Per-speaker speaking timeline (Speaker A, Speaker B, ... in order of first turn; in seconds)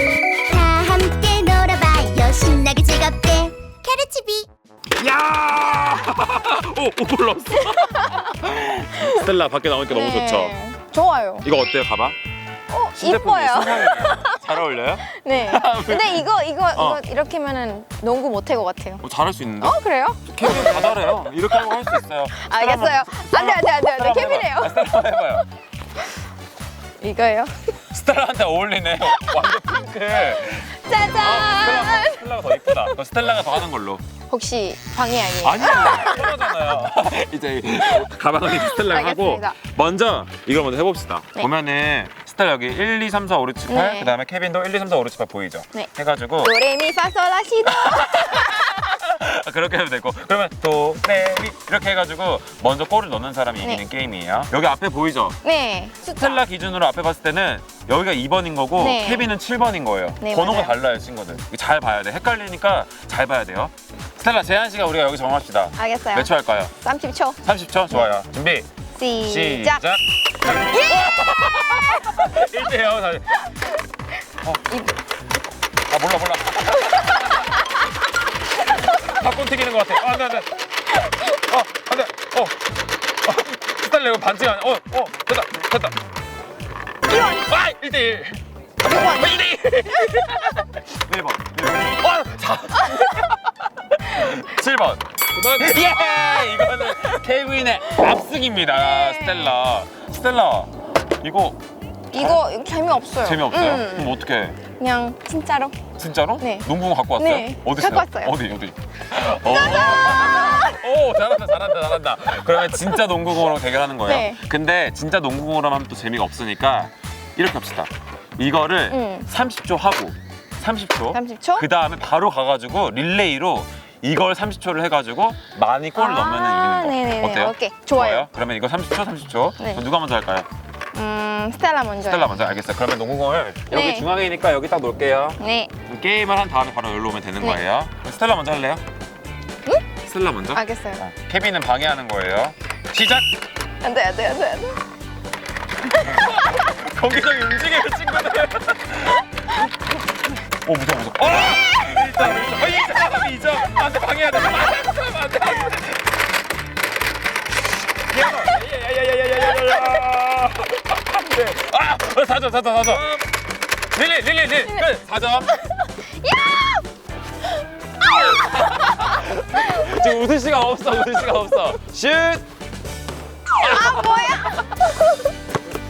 Speaker A: 0.5-4.5
Speaker B: 5.0-10.5, 11.4-12.2, 12.9-17.0, 19.0-19.8, 20.3-25.4, 27.9-34.0, 35.4-46.5, 47.7-55.4, 56.1-66.8, 67.4-68.7, 69.2-73.4, 75.9-77.7, 78.7-80.5, 81.2-82.6, 83.2-86.0, 87.2-101.6, 102.1-102.4, 103.2-104.6, 106.0-130.5, 132.0-138.8, 140.0-143.3, 145.9-149.7, 150.4-156.0, 158.1-163.2, 163.9-165.5, 168.1-172.4, 173.6-174.7
Speaker C: 7.6-8.3, 9.9-11.4, 12.7-14.4, 15.0-19.0, 19.6-24.8, 27.0-27.5, 29.1-29.6, 30.5-32.8, 34.3-36.5, 38.6-39.6, 43.7-44.1, 46.4-48.9, 55.4-56.4, 58.8-59.3, 60.2-60.7, 65.8-67.4, 68.9-69.8, 70.6-70.9, 87.1-87.5, 88.8-90.2, 98.8-99.6, 102.1-104.2, 104.8-105.8, 106.4-108.4, 109.3-110.8, 114.0-114.4, 118.9-119.3, 121.1-121.6, 126.0-128.3, 130.9-132.3, 133.7-134.1, 135.4-135.7, 140.5-141.0, 143.8-144.8, 165.5-166.8, 168.2-169.1, 173.6-174.6